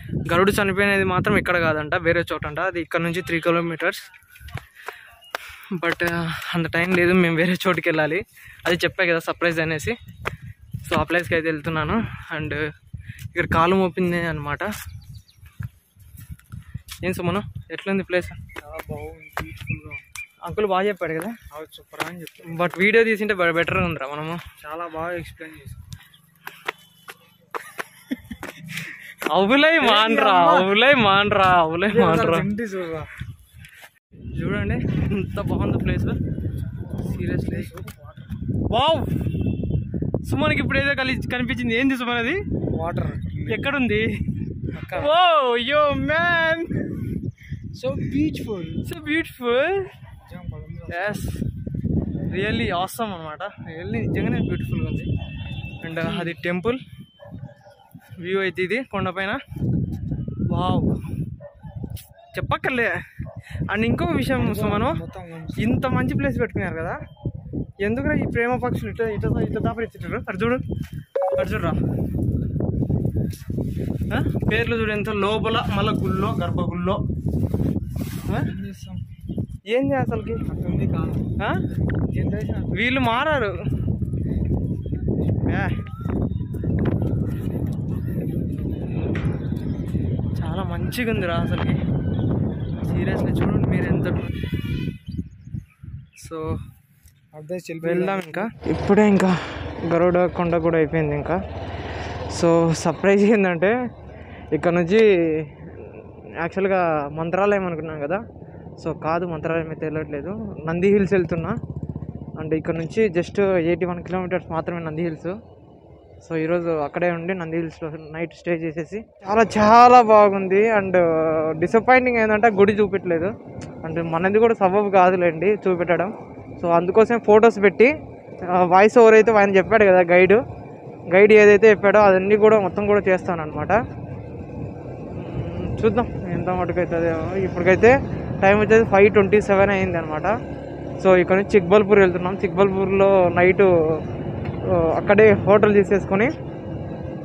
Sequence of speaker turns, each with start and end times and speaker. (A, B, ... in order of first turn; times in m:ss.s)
0:00.3-0:04.1 A
0:05.7-0:10.0 A
0:10.8-0:12.6 A
0:13.3-0:14.7 A
0:17.0-0:18.4 A
0:18.6-0:20.1 B
0:20.4-0:21.4 A
0:21.5-0:22.7 B
0:22.4-0:24.4 A
0:24.6-0:25.8 B
0:28.8-0:32.5 A
0:29.8-0:30.7 B
0:31.9-0:33.1 B
0:34.3-0:36.2 A
0:36.6-0:38.4 B
0:37.0-0:37.7 A
0:38.7-0:39.2 A
0:40.2-0:42.4 A
0:42.7-0:43.6 B
0:43.5-0:44.2 A
0:44.7-0:45.1 B
0:44.9-0:46.9 A
0:47.7-0:48.8 B
0:48.8-0:49.9 A
0:50.2-0:51.2 B
0:50.9-0:51.4 A
0:52.3-0:55.1 A
0:55.8-0:56.8 A
0:58.2-0:59.4 A
1:00.5-1:00.9 A
1:02.3-1:03.0 A
1:03.7-1:05.0 A
1:04.4-1:05.6 B
1:05.6-1:07.0 A
1:07.8-1:10.6 A
1:11.3-1:11.8 A
1:14.1-1:17.0 A
1:18.5-1:19.0 B
1:19.7-1:20.4 A
1:20.4-1:21.3 B
1:22.1-1:22.8 B
1:22.7-1:23.6 A
1:25.3-1:25.7 A
1:30.4-1:31.8 A
1:32.8-1:34.3 A
1:36.2-1:36.5 A
1:37.3-1:38.5 B
1:37.8-1:41.4 A
1:42.3-1:43.7 A
1:44.5-1:48.2 A
1:48.8-1:51.6 A
1:52.4-1:55.4 A
1:56.2-2:03.3 A
2:03.8-2:07.9 A
2:08.5-2:10.4 A
2:11.1-2:13.8 A
2:15.1-2:20.3 A
2:21.0-2:23.7 A
2:24.7-2:26.3 A